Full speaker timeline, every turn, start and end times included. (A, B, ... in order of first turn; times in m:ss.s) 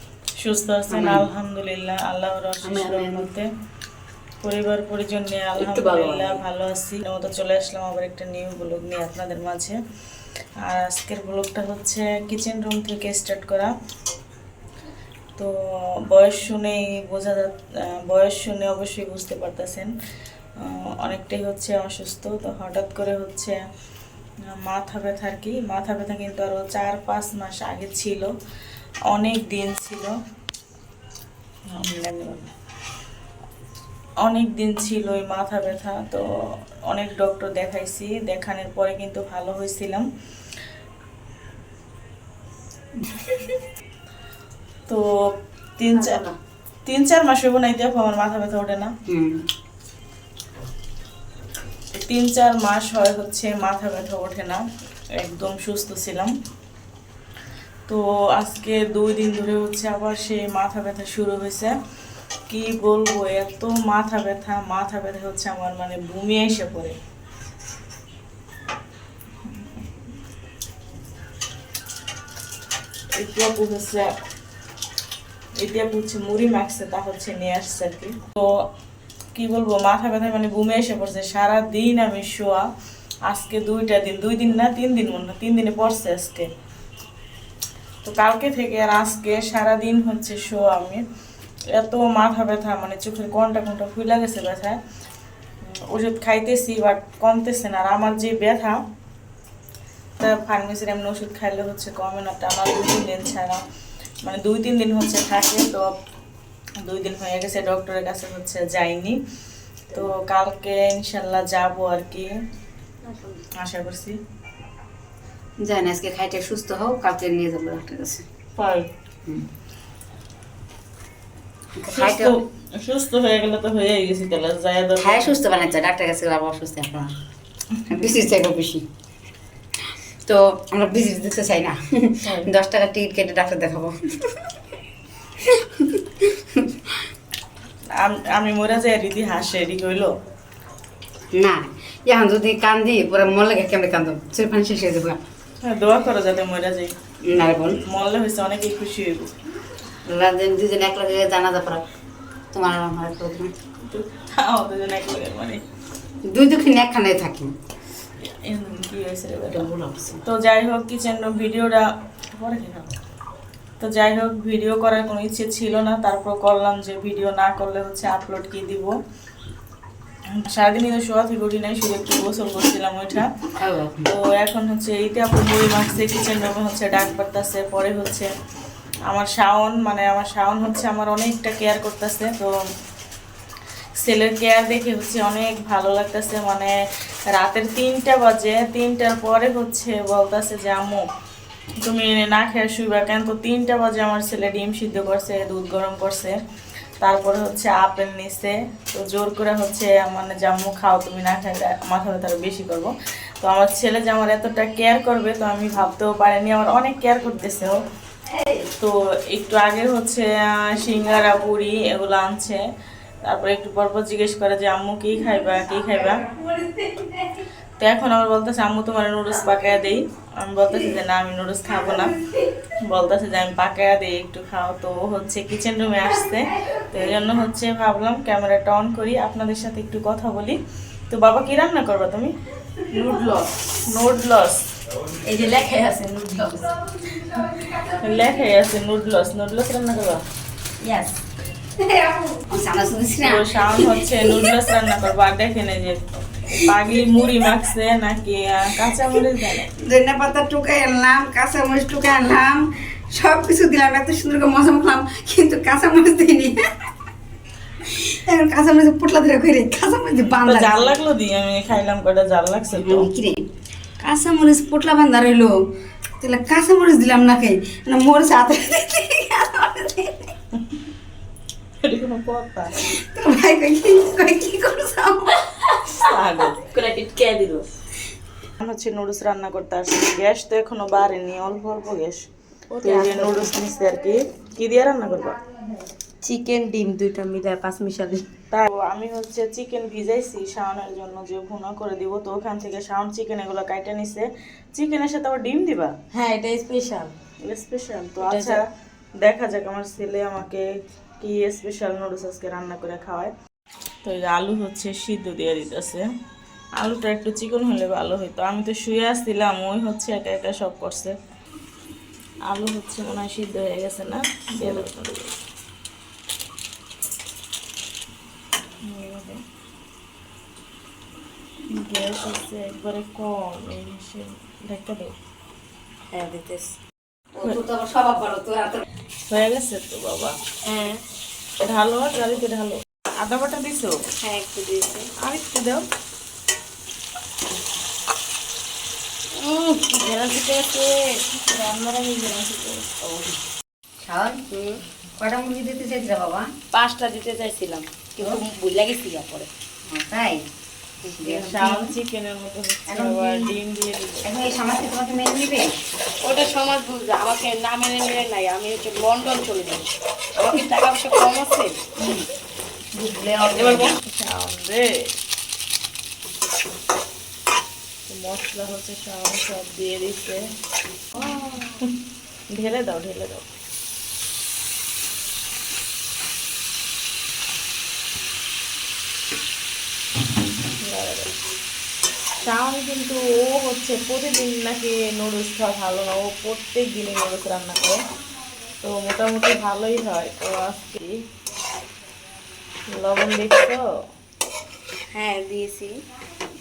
0:00.4-0:03.5 A
0:00.9-0:01.2 B
0:02.6-0:03.3 B
0:04.4-0:09.8 A
0:05.6-0:06.3 C
0:10.6-0:13.7 A
0:16.1-0:19.9 A
0:20.6-0:23.6 A
0:24.6-0:28.3 A
0:29.1-0:30.1 A
0:31.7-0:32.5 A
0:34.2-0:36.2 A
0:36.9-0:40.0 A
0:43.0-0:43.5 B
0:45.8-0:46.2 A
0:46.0-0:46.2 C
0:46.9-0:48.9 A
0:49.1-0:49.5 B
0:52.0-0:54.6 A
0:55.2-0:56.3 A
0:57.9-1:01.7 A
1:02.5-1:07.0 A
1:13.2-1:14.1 A
1:15.6-1:18.6 A
1:19.3-1:22.7 A
1:23.3-1:26.5 A
1:28.0-1:31.0 A
1:31.8-1:34.8 A
1:35.7-1:38.8 A
1:40.2-1:43.6 A
1:44.2-1:45.9 A
1:46.8-1:49.2 A
1:49.9-1:52.3 A
1:53.0-1:53.4 C
1:53.6-1:54.2 A
1:55.6-1:58.2 B
1:58.6-1:58.9 A
2:01.8-2:02.3 B
2:01.9-2:05.4 A
2:05.0-2:07.1 B
2:07.9-2:08.8 B
2:10.2-2:14.4 B
2:12.2-2:12.5 A
2:15.4-2:16.7 B
2:17.9-2:20.1 A
2:21.3-2:25.2 B
2:25.6-2:26.9 A
2:27.2-2:27.8 B
2:27.6-2:29.3 A
2:30.1-2:31.8 B
2:32.5-2:33.5 B
2:33.9-2:35.6 A
2:36.3-2:37.5 B
2:38.2-2:39.7 A
2:39.5-2:40.2 B
2:40.2-2:43.0 A
2:43.8-2:48.9 A
2:50.4-2:53.3 A
2:53.6-2:54.0 B
2:54.0-2:58.3 A
2:59.1-3:02.5 A
3:04.0-3:06.7 A
3:07.3-3:11.0 A
3:11.8-3:16.4 A
3:17.0-3:27.8 A
3:28.8-3:32.6 A
3:33.3-3:36.2 A
3:35.2-3:37.4 B
3:37.8-3:42.2 A
3:40.7-3:41.0 B
3:41.7-3:42.4 B
3:42.9-3:50.6 A
3:46.4-3:47.3 B
3:51.1-3:52.3 A
3:53.0-3:53.4 B
3:53.8-3:54.6 A
3:55.1-3:56.7 C
3:56.7-3:58.4 B
3:57.4-4:00.2 A
4:00.8-4:01.1 C
4:01.8-4:04.6 B
4:03.2-4:09.7 A
4:06.6-4:07.0 B
4:08.8-4:16.9 B
4:17.8-4:20.9 B
4:20.3-4:23.1 A
4:22.7-4:23.4 B
4:24.0-4:25.6 B
4:26.2-4:30.3 B
4:31.8-4:32.8 A
4:32.8-4:35.4 B
4:36.0-4:36.7 A
4:36.5-4:37.7 C
4:38.6-4:42.3 A
4:42.7-4:43.5 C
4:42.8-4:45.4 A
4:46.2-4:48.2 C
4:48.5-4:55.9 A
4:56.1-4:57.1 C
4:57.4-4:58.6 A
4:58.2-4:58.6 C
4:59.2-5:00.7 A
5:01.2-5:03.3 A
5:04.0-5:06.1 A
5:06.8-5:11.1 A
5:12.5-5:15.3 A
5:18.9-5:19.4 A
5:21.7-5:25.1 A
5:26.1-5:26.8 C
5:27.3-5:28.8 B
5:29.3-5:30.4 A
5:30.6-5:31.0 C
5:31.6-5:34.0 A
5:34.2-5:35.1 C
5:35.2-5:35.8 A
5:39.4-5:43.3 C
5:44.0-5:46.5 B
5:46.7-5:49.5 C
5:49.9-5:50.4 B
5:51.0-5:51.9 C
5:51.1-5:51.6 B
5:51.3-5:54.2 A
5:52.9-5:53.6 B
5:54.2-5:55.7 B
5:56.2-5:59.9 C
6:00.4-6:01.8 C
6:03.0-6:03.8 B
6:03.5-6:04.8 A
6:03.6-6:03.8 C
6:08.1-6:10.5 A
6:11.2-6:11.7 A
6:12.6-6:13.4 A
6:20.8-6:21.3 A
6:22.4-6:28.0 A
6:28.8-6:31.2 A
6:32.9-6:33.8 A
6:35.1-6:36.0 C